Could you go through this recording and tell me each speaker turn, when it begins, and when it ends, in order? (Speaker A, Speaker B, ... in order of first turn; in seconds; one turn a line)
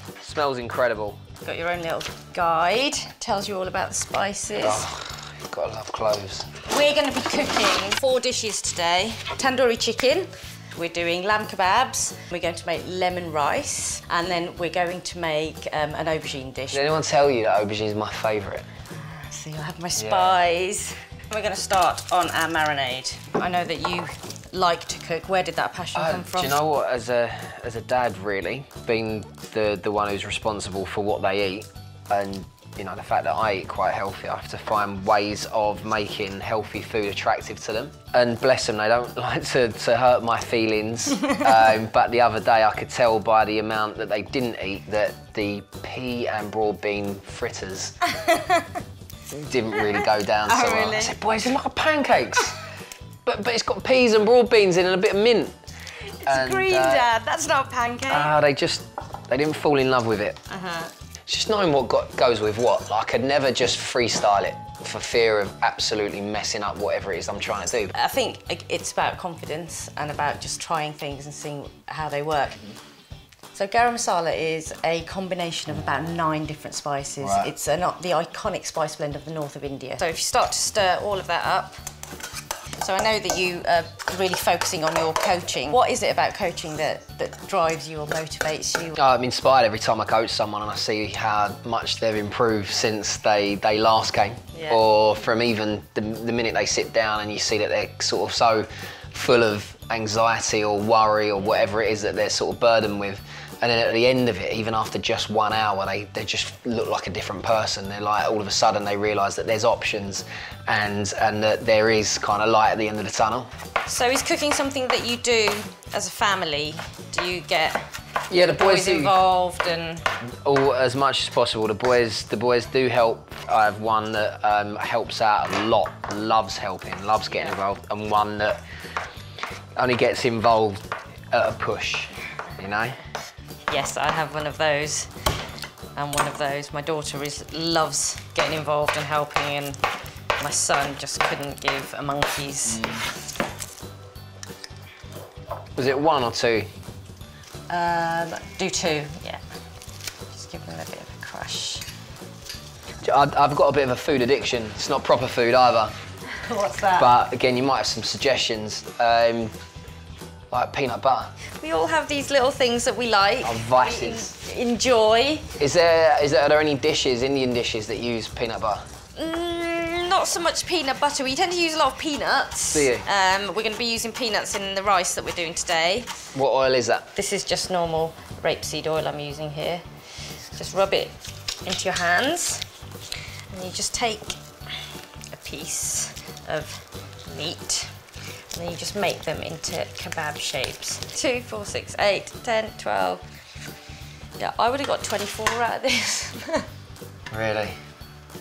Speaker A: 0.2-1.2
Speaker B: 1.4-4.8
Speaker A: 4.6-6.5
Speaker B: 6.6-16.9
Speaker A: 16.7-18.6
Speaker B: 18.9-26.6
Speaker A: 20.0-20.3
Speaker A: 25.9-48.0
Speaker B: 41.2-41.6
Speaker B: 48.1-48.8
Speaker A: 49.3-52.6
Speaker B: 49.8-51.1
Speaker A: 53.2-55.5
Speaker B: 56.0-58.3
Speaker A: 56.2-57.1
Speaker A: 58.1-60.4
Speaker B: 60.5-60.9
Speaker A: 61.3-67.9
Speaker B: 67.9-72.6
Speaker B: 73.5-81.8
Speaker A: 77.2-77.5
Speaker B: 82.8-89.0
Speaker A: 89.0-113.5
Speaker B: 94.5-94.8
Speaker B: 113.8-120.1
Speaker A: 118.3-119.2
Speaker A: 120.3-128.6
Speaker B: 127.3-127.5
Speaker A: 129.8-133.0
Speaker B: 133.7-135.1
Speaker B: 135.9-139.8
Speaker B: 140.4-142.9
Speaker A: 142.7-143.0
Speaker A: 145.8-146.7
Speaker B: 147.7-149.4
Speaker B: 150.3-151.8
Speaker A: 153.0-155.9
Speaker B: 156.3-157.1
Speaker A: 156.9-159.5
Speaker A: 160.5-161.3
Speaker B: 161.6-165.5
Speaker A: 163.4-164.3
Speaker A: 165.6-168.8
Speaker B: 169.1-176.1
Speaker A: 172.7-173.1
Speaker A: 176.3-177.1
Speaker B: 177.1-182.7
Speaker B: 183.5-188.0
Speaker B: 188.5-193.2
Speaker B: 194.4-196.7
Speaker A: 197.3-197.8